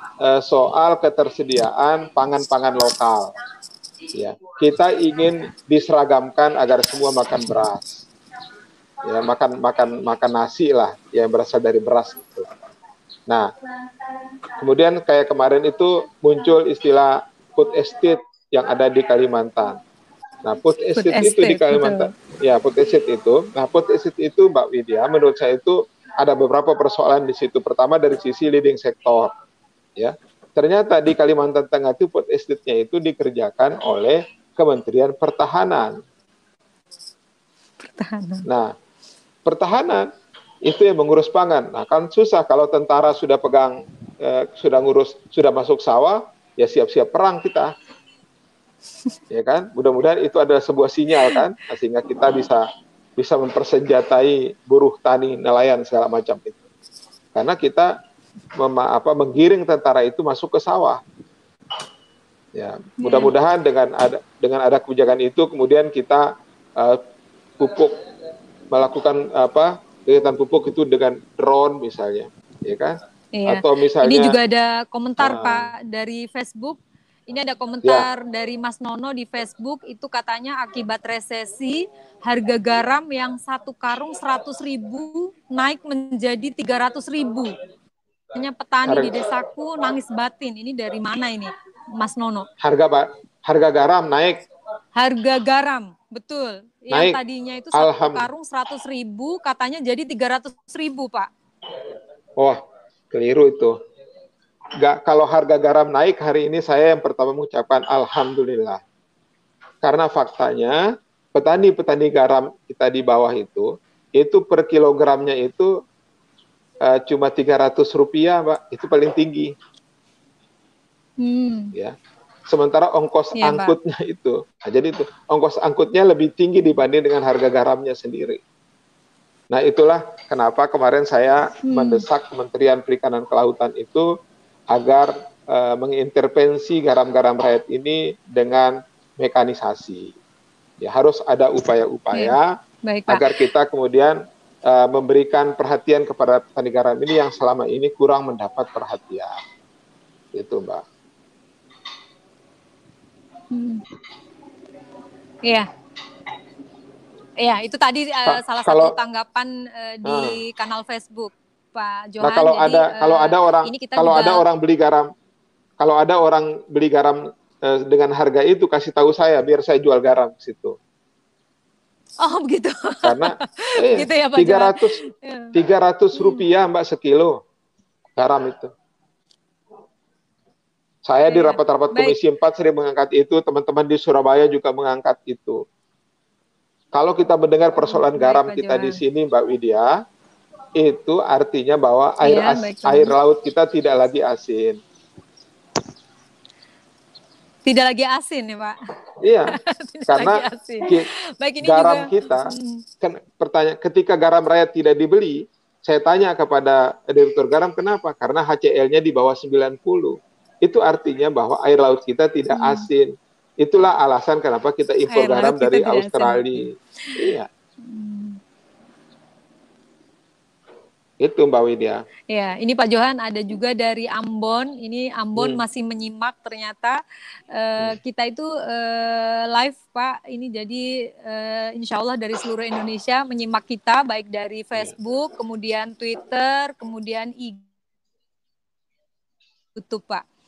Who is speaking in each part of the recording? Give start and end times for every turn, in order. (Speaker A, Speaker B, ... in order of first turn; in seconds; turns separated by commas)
Speaker A: 0.2-3.3, Speaker A: 4.1-8.1, Speaker A: 9.0-12.5, Speaker A: 14.5-19.8, Speaker A: 20.4-29.3, Speaker B: 20.9-22.1, Speaker A: 29.9-36.0, Speaker B: 37.9-38.5, Speaker A: 38.5-38.7, Speaker A: 39.5-40.1, Speaker A: 40.6-47.7, Speaker A: 49.3-52.7, Speaker A: 53.2-56.6, Speaker A: 57.4-57.9, Speaker A: 58.6-61.0, Speaker A: 62.5-67.0, Speaker B: 63.0-63.3, Speaker A: 67.6-68.0, Speaker A: 68.7-74.4, Speaker B: 73.3-76.8, Speaker A: 75.2-75.7, Speaker B: 77.3-87.5, Speaker B: 88.3-92.5, Speaker A: 88.9-89.1, Speaker A: 92.6-94.5, Speaker B: 95.0-101.3, Speaker A: 96.9-97.2, Speaker A: 97.7-98.3, Speaker A: 103.1-103.8, Speaker A: 104.8-108.8, Speaker A: 109.8-115.7, Speaker A: 116.8-119.5, Speaker B: 121.2-121.7, Speaker A: 122.5-128.4, Speaker B: 123.4-123.7, Speaker A: 129.5-134.1, Speaker B: 131.7-132.1, Speaker A: 134.7-140.1, Speaker A: 140.8-142.5, Speaker B: 142.1-143.3, Speaker A: 143.1-149.4, Speaker A: 150.3-150.8, Speaker B: 153.5-153.8, Speaker B: 157.4-164.4, Speaker A: 158.3-158.9, Speaker A: 160.1-160.4, Speaker A: 162.2-165.1, Speaker A: 165.8-170.8, Speaker B: 172.2-175.5, Speaker A: 173.0-174.9, Speaker A: 175.5-177.4, Speaker B: 176.1-176.4, Speaker A: 178.2-178.7, Speaker A: 181.1-185.6, Speaker B: 181.3-182.2, Speaker A: 186.9-190.0, Speaker B: 187.8-189.0, Speaker A: 190.8-194.8, Speaker B: 192.2-193.1, Speaker B: 197.6-198.8, Speaker A: 199.2-201.1, Speaker B: 199.5-202.8, Speaker A: 201.6-217.5, Speaker B: 212.5-212.9, Speaker B: 215.1-216.6, Speaker B: 217.8-218.4, Speaker A: 221.2-222.0, Speaker B: 222.3-227.0, Speaker A: 225.4-225.6, Speaker B: 227.5-237.6, Speaker B: 239.8-240.2